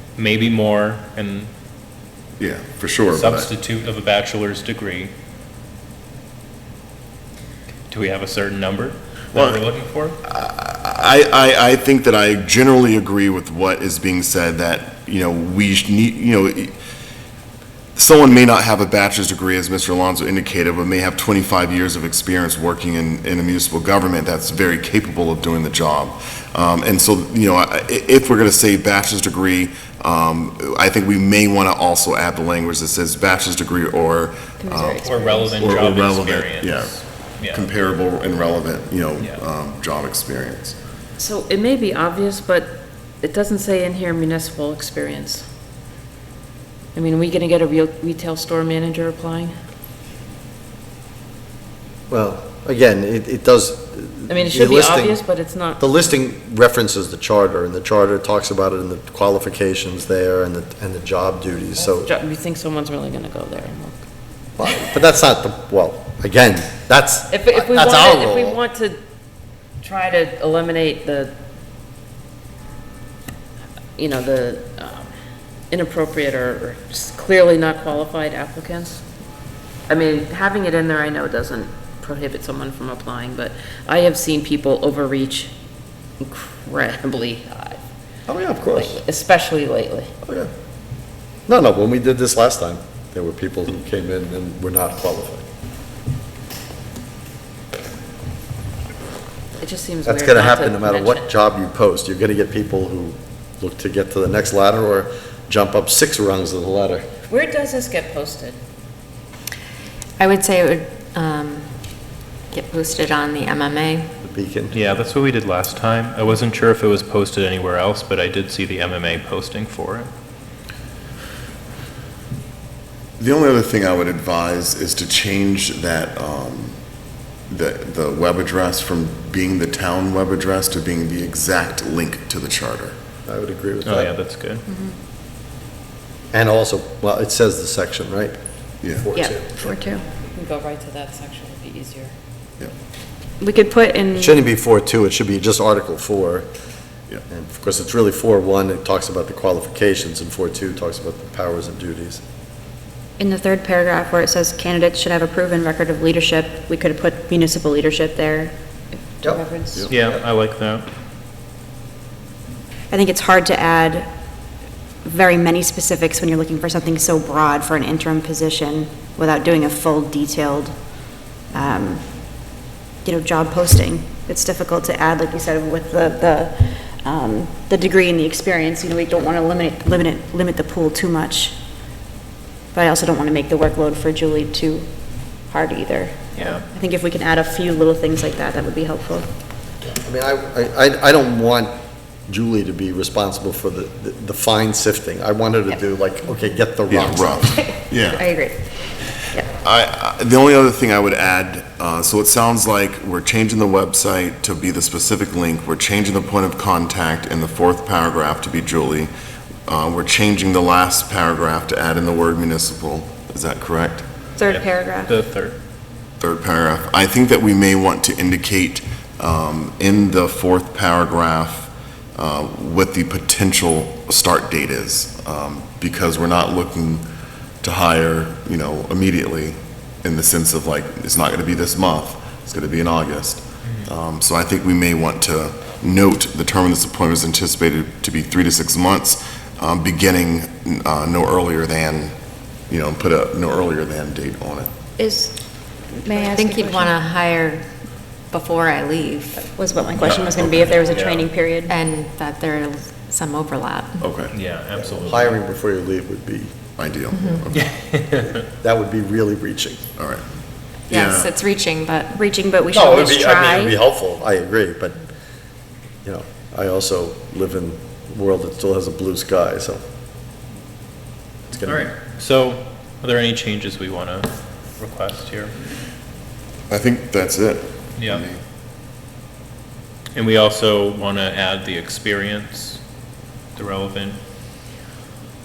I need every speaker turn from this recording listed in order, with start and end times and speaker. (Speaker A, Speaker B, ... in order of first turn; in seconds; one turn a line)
Speaker A: 0.2-1.5
Speaker B: 2.4-3.5
Speaker A: 3.1-5.1
Speaker A: 7.9-10.2
Speaker B: 9.3-9.7
Speaker B: 10.2-16.7
Speaker B: 18.0-40.8
Speaker C: 34.6-35.5
Speaker A: 35.0-37.7
Speaker D: 41.2-45.4
Speaker D: 47.0-49.5
Speaker E: 52.1-55.2
Speaker D: 54.3-55.8
Speaker E: 55.8-62.1
Speaker D: 61.8-64.0
Speaker E: 64.6-68.6
Speaker D: 67.3-69.0
Speaker D: 69.8-71.3
Speaker D: 74.0-75.1
Speaker D: 75.7-79.0
Speaker D: 79.9-85.5
Speaker D: 86.2-87.8
Speaker E: 88.3-89.0
Speaker D: 88.8-90.1
Speaker E: 90.2-90.5
Speaker E: 91.5-95.4
Speaker D: 99.6-101.3
Speaker E: 100.0-107.1
Speaker D: 107.3-108.6
Speaker F: 110.2-111.7
Speaker F: 112.5-114.1
Speaker E: 114.2-114.8
Speaker A: 114.7-120.1
Speaker B: 123.2-126.8
Speaker B: 127.5-132.9
Speaker E: 133.2-134.1
Speaker A: 133.8-134.7
Speaker C: 134.7-134.9
Speaker E: 136.3-138.4
Speaker B: 138.8-139.1
Speaker E: 138.9-139.8
Speaker C: 139.2-140.0
Speaker D: 140.2-142.1
Speaker C: 143.4-144.4
Speaker E: 144.2-146.5
Speaker E: 147.3-152.2
Speaker C: 153.2-158.5
Speaker C: 159.2-159.9
Speaker A: 159.9-160.9
Speaker C: 162.9-164.1
Speaker C: 165.0-181.6
Speaker C: 182.7-189.3
Speaker A: 186.3-186.7
Speaker E: 189.9-191.7
Speaker E: 192.3-197.8
Speaker B: 196.9-198.2
Speaker F: 198.2-198.6
Speaker B: 199.6-209.1
Speaker B: 209.7-214.0
Speaker C: 214.4-215.1
Speaker A: 214.4-215.6
Speaker B: 216.2-227.0
Speaker B: 227.6-242.2
Speaker A: 233.6-233.9
Speaker B: 242.7-244.7
Speaker C: 245.0-246.9
Speaker F: 246.1-247.7
Speaker F: 248.3-249.5
Speaker C: 249.3-251.7
Speaker A: 250.0-251.3
Speaker F: 251.7-254.0
Speaker B: 254.0-254.3
Speaker A: 254.3-255.4
Speaker E: 254.8-256.5
Speaker B: 256.8-257.7
Speaker F: 257.1-257.4
Speaker A: 257.5-258.4
Speaker E: 258.6-259.8
Speaker B: 260.0-260.2
Speaker F: 260.9-262.1
Speaker B: 260.9-261.3
Speaker C: 262.1-263.8
Speaker E: 262.7-265.0
Speaker E: 266.1-269.8
Speaker E: 271.5-271.9
Speaker A: 271.7-275.5
Speaker B: 276.7-278.4
Speaker A: 278.0-278.2
Speaker A: 280.1-282.8
Speaker A: 283.6-284.2